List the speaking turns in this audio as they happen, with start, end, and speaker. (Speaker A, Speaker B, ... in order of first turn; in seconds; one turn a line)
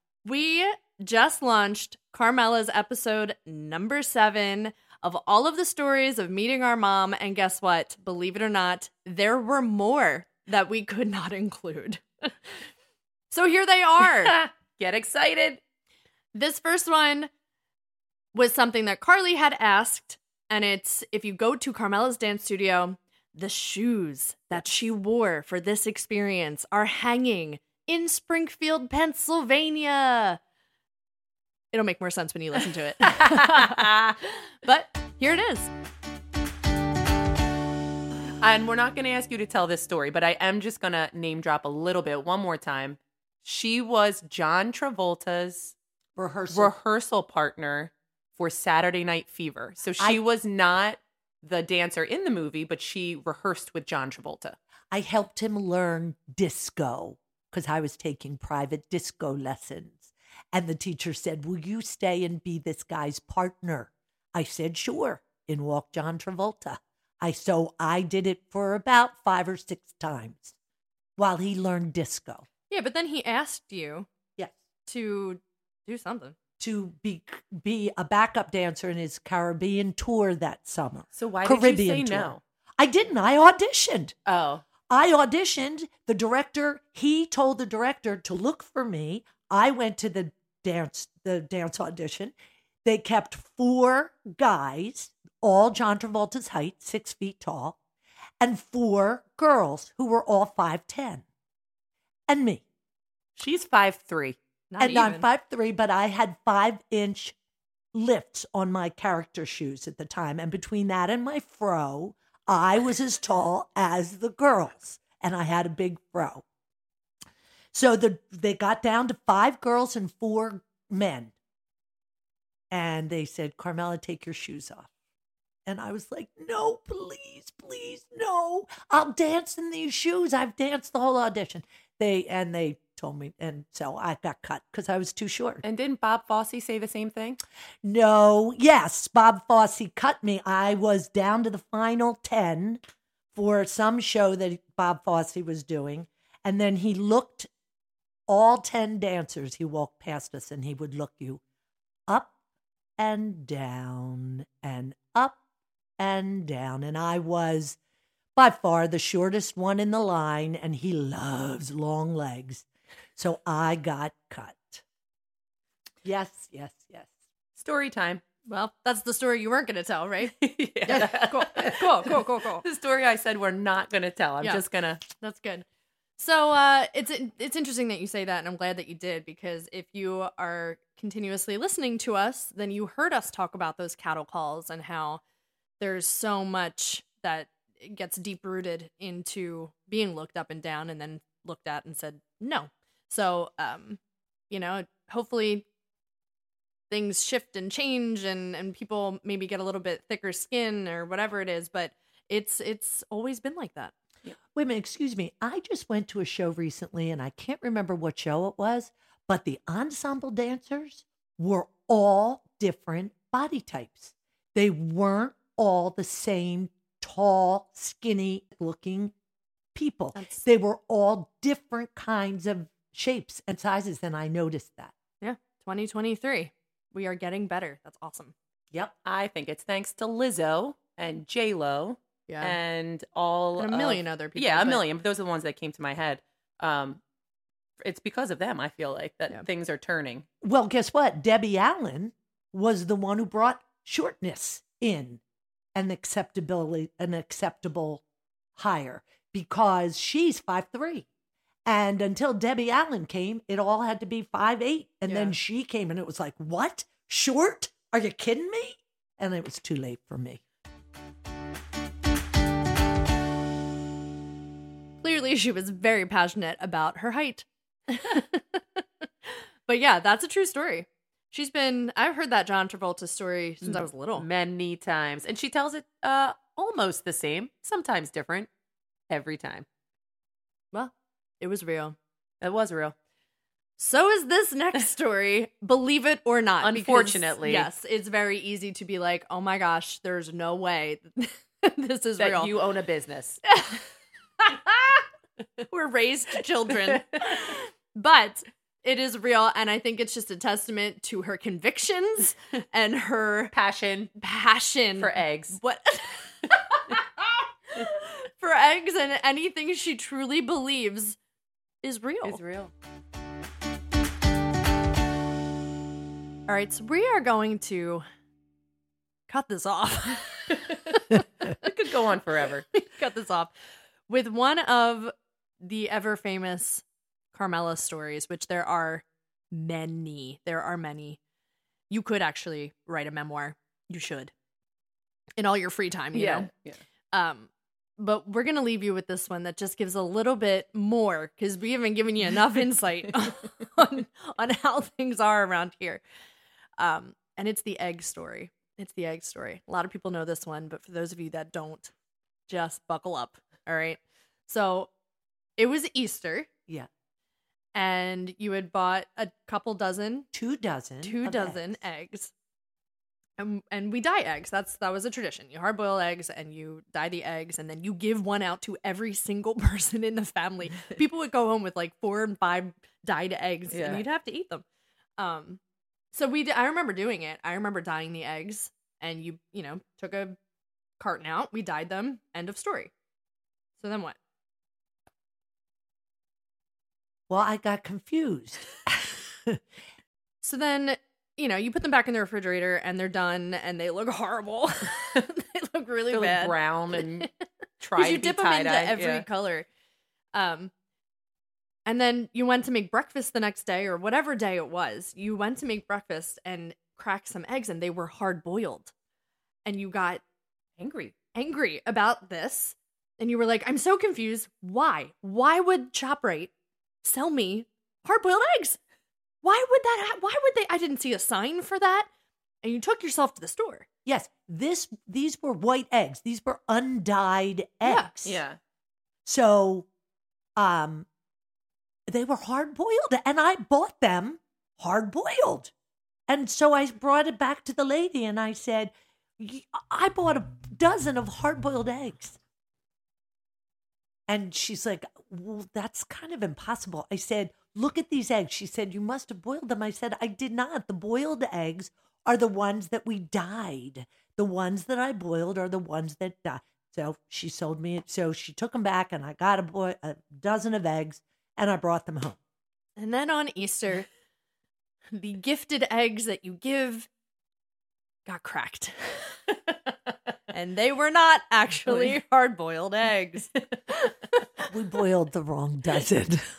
Speaker A: 0.2-12.3
Speaker A: 13.3-14.4
Speaker B: 14.1-15.6
Speaker A: 16.4-17.3
Speaker A: 18.3-30.4
Speaker A: 31.7-35.7
Speaker B: 33.0-34.2
Speaker B: 38.4-45.8
Speaker C: 46.2-46.8
Speaker B: 46.5-54.6
Speaker C: 54.9-70.6
Speaker C: 71.2-72.5
Speaker A: 72.7-74.1
Speaker A: 74.8-76.4
Speaker C: 76.6-84.2
Speaker B: 81.1-82.4
Speaker B: 84.3-84.6
Speaker C: 84.9-97.8
Speaker C: 98.4-101.2
Speaker C: 102.3-102.7
Speaker B: 103.4-104.4
Speaker A: 104.7-105.3
Speaker C: 104.8-107.4
Speaker C: 107.9-116.4
Speaker C: 117.7-121.3
Speaker C: 122.7-124.9
Speaker C: 125.7-135.6
Speaker B: 135.6-137.4
Speaker C: 137.8-142.8
Speaker C: 143.3-147.5
Speaker C: 148.3-151.4
Speaker C: 153.0-155.4
Speaker C: 156.0-157.8
Speaker C: 158.4-164.8
Speaker C: 166.0-167.1
Speaker B: 167.6-168.2
Speaker A: 168.5-170.3
Speaker B: 170.2-175.0
Speaker A: 170.9-172.6
Speaker A: 175.2-175.7
Speaker A: 176.2-185.2
Speaker A: 185.8-194.0
Speaker A: 194.5-195.7
Speaker A: 196.9-203.9
Speaker C: 204.6-219.1
Speaker C: 219.7-224.9
Speaker A: 220.1-220.4
Speaker A: 225.2-228.3
Speaker B: 229.1-237.0
Speaker A: 232.3-232.6
Speaker A: 233.6-234.8
Speaker B: 237.8-240.2
Speaker C: 240.4-245.2
Speaker C: 245.8-248.0
Speaker C: 248.6-251.1
Speaker C: 251.7-260.4
Speaker A: 255.1-255.4
Speaker A: 265.0-274.2
Speaker B: 273.6-278.5
Speaker B: 279.1-279.7
Speaker A: 280.7-281.9
Speaker B: 282.4-282.9
Speaker A: 283.8-292.5
Speaker B: 286.6-287.7
Speaker B: 292.2-293.4
Speaker A: 293.5-293.9
Speaker A: 294.4-295.1
Speaker A: 295.6-303.5
Speaker B: 303.5-304.1
Speaker A: 304.2-311.2
Speaker B: 305.0-305.6
Speaker A: 311.8-312.4
Speaker B: 312.2-312.7
Speaker A: 316.5-318.0
Speaker A: 319.3-321.6
Speaker B: 320.5-321.0
Speaker B: 321.6-322.7
Speaker A: 322.7-323.5
Speaker A: 324.1-331.2
Speaker A: 331.9-334.3
Speaker A: 335.4-336.5
Speaker B: 336.1-336.8
Speaker A: 337.1-346.0
Speaker A: 346.8-351.9
Speaker A: 352.5-354.9
Speaker A: 355.6-356.5
Speaker A: 357.8-360.3
Speaker C: 360.3-361.8
Speaker A: 361.0-362.3
Speaker A: 363.4-374.6
Speaker B: 373.7-374.0
Speaker A: 375.2-375.6
Speaker A: 376.1-380.4
Speaker A: 381.0-382.9
Speaker A: 383.8-384.2
Speaker C: 387.3-389.6
Speaker A: 390.4-397.4
Speaker B: 396.1-397.3
Speaker B: 397.8-399.2
Speaker A: 397.9-399.7
Speaker A: 400.3-400.7
Speaker A: 401.9-408.9
Speaker A: 409.6-410.2
Speaker B: 410.8-411.1
Speaker A: 411.4-416.5
Speaker A: 417.0-418.8
Speaker A: 419.4-422.1
Speaker A: 422.6-423.9
Speaker C: 424.1-428.4
Speaker A: 427.8-428.1
Speaker B: 428.2-428.6
Speaker C: 429.2-429.9
Speaker C: 430.6-431.1
Speaker C: 432.1-435.7
Speaker C: 436.3-442.4
Speaker C: 444.3-462.4
Speaker A: 463.0-464.1
Speaker A: 465.1-467.1
Speaker A: 468.2-469.4
Speaker A: 470.5-474.5
Speaker B: 471.9-472.2
Speaker C: 474.7-476.4